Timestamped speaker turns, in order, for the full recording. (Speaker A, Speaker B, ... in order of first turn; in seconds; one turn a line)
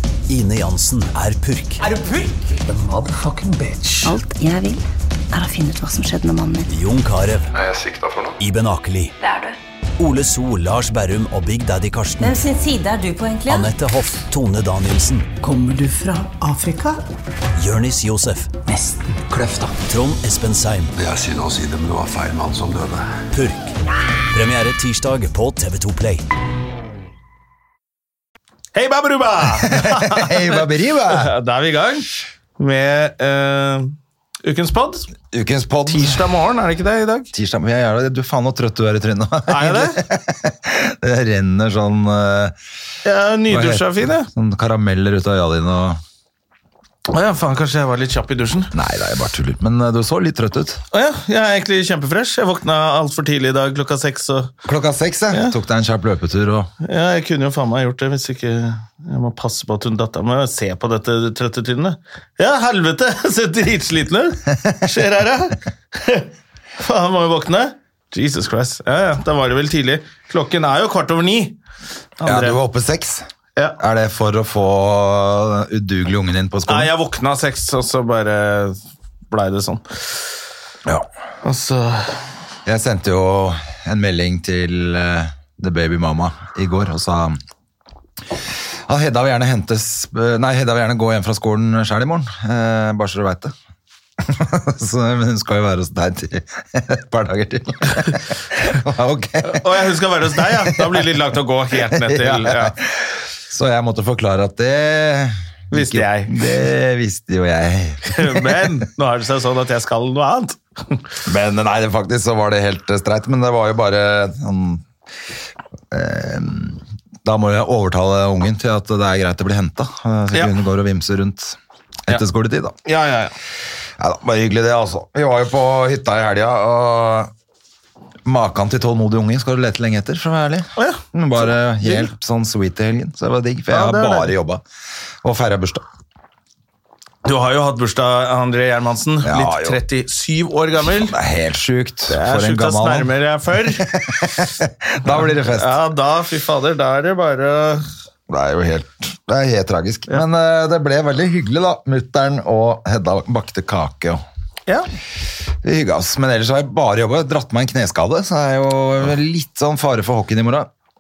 Speaker A: 0.3-1.9
Speaker B: 2.6-4.2
Speaker C: 4.0-6.7
Speaker A: 6.7-7.5
Speaker D: 7.5-8.4
Speaker A: 8.4-9.2
Speaker E: 9.2-9.6
Speaker A: 10.0-12.4
Speaker E: 12.2-13.7
Speaker A: 13.5-15.3
Speaker B: 15.4-17.0
Speaker A: 17.6-18.6
Speaker B: 18.7-19.8
Speaker A: 19.9-20.9
Speaker D: 21.0-23.2
Speaker A: 23.3-23.8
Speaker A: 24.3-26.2
Speaker F: 28.8-35.1
Speaker G: 29.6-31.3
Speaker G: 35.3-36.2
Speaker F: 35.9-37.3
Speaker G: 37.3-42.5
Speaker F: 39.5-40.0
Speaker F: 43.0-44.3
Speaker G: 43.5-46.0
Speaker F: 47.1-48.7
Speaker G: 48.7-50.8
Speaker F: 50.9-54.5
Speaker G: 54.6-56.7
Speaker F: 56.8-71.6
Speaker F: 72.2-72.6
Speaker G: 72.2-73.3
Speaker G: 73.8-76.9
Speaker F: 76.7-78.8
Speaker F: 79.3-80.3
Speaker F: 81.4-82.2
Speaker G: 82.7-87.4
Speaker G: 88.9-93.5
Speaker G: 94.2-101.0
Speaker F: 99.4-102.7
Speaker G: 101.8-108.8
Speaker F: 105.7-106.4
Speaker F: 108.1-111.0
Speaker G: 111.2-114.9
Speaker G: 115.9-121.6
Speaker G: 122.1-122.8
Speaker F: 122.8-123.3
Speaker G: 124.0-127.3
Speaker G: 128.2-134.6
Speaker F: 130.8-132.1
Speaker F: 133.7-134.3
Speaker G: 135.2-135.9
Speaker F: 137.2-141.2
Speaker G: 139.2-139.8
Speaker G: 140.9-143.1
Speaker F: 142.1-143.9
Speaker G: 143.7-145.8
Speaker F: 145.1-147.9
Speaker G: 148.3-154.2
Speaker G: 155.6-160.7